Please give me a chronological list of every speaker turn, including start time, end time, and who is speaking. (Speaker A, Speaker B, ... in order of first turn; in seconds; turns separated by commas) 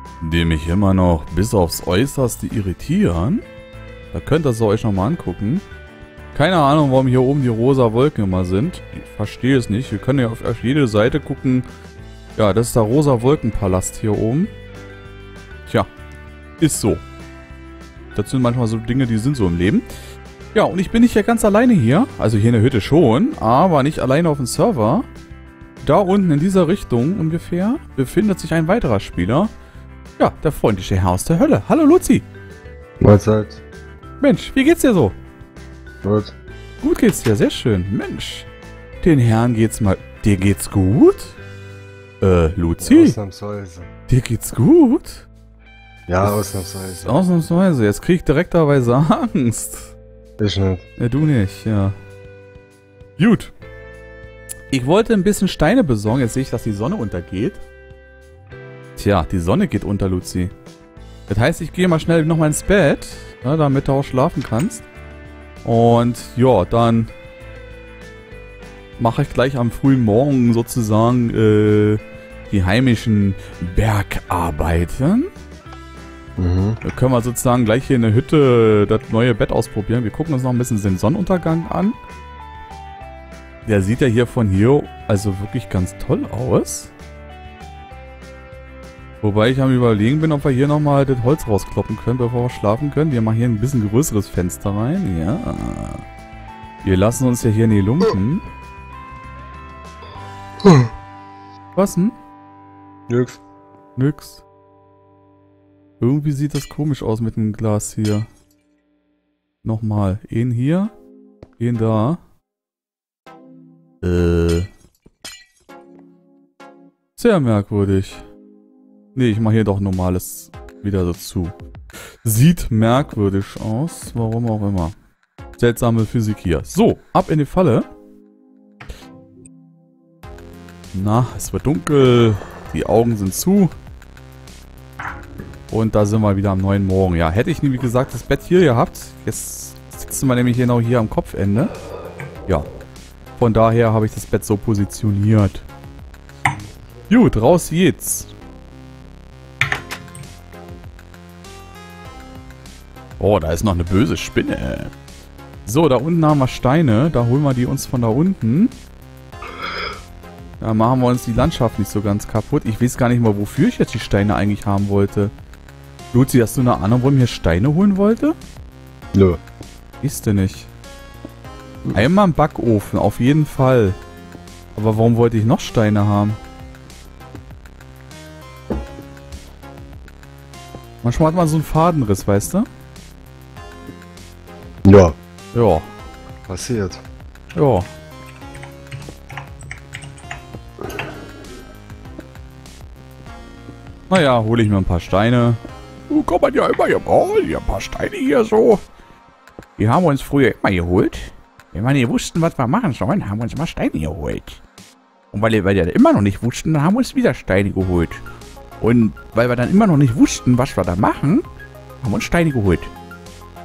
Speaker A: 0.2-3.4, Speaker A: 4.1-5.6, Speaker A: 6.3-11.7, Speaker A: 12.3-14.5, Speaker A: 16.6-17.0, Speaker A: 18.1-19.9, Speaker A: 20.5-25.1, Speaker A: 25.8-29.5, Speaker A: 30.2-32.2, Speaker B: 33.0-33.6, Speaker A: 34.2-35.1, Speaker B: 36.0-36.3, Speaker A: 36.8-38.5, Speaker A: 39.0-41.4, Speaker A: 42.2-43.2, Speaker B: 42.8-43.9, Speaker A: 44.1-45.3, Speaker B: 46.1-47.2, Speaker A: 46.2-49.9, Speaker B: 50.4-50.8, Speaker A: 51.0-51.9, Speaker A: 53.2-53.5, Speaker A: 54.7-57.6, Speaker A: 59.0-60.5, Speaker A: 61.3-64.8, Speaker A: 65.6-67.1, Speaker A: 69.0-75.3, Speaker B: 76.4-76.8, Speaker A: 76.8-82.0, Speaker A: 83.6-86.9, Speaker A: 89.2-96.0, Speaker A: 96.8-98.4, Speaker B: 100.6-100.9, Speaker A: 101.8-102.2, Speaker B: 103.1-103.4, Speaker A: 104.0-104.4, Speaker A: 106.0-108.3, Speaker A: 109.6-110.9, Speaker A: 111.6-112.2, Speaker A: 114.0-114.7, Speaker A: 117.2-118.2, Speaker A: 119.1-121.5, Speaker A: 122.2-125.0, Speaker A: 125.6-127.8, Speaker A: 130.9-133.7, Speaker A: 135.7-141.7, Speaker A: 143.4-145.7, Speaker A: 147.1-148.3, Speaker A: 153.2-154.9, Speaker A: 155.6-158.7, Speaker A: 160.6-165.3, Speaker A: 166.1-168.3, Speaker B: 169.1-169.4, Speaker A: 170.0-170.7, Speaker A: 171.9-174.0, Speaker A: 174.7-176.4, Speaker A: 181.0-182.7, Speaker B: 184.8-185.2, Speaker A: 185.5-185.9, Speaker B: 186.5-187.0, Speaker A: 187.5-187.9, Speaker A: 194.1-198.8, Speaker A: 199.8-204.6, Speaker A: 205.3-208.2, Speaker A: 208.8-211.4, Speaker A: 212.0-212.9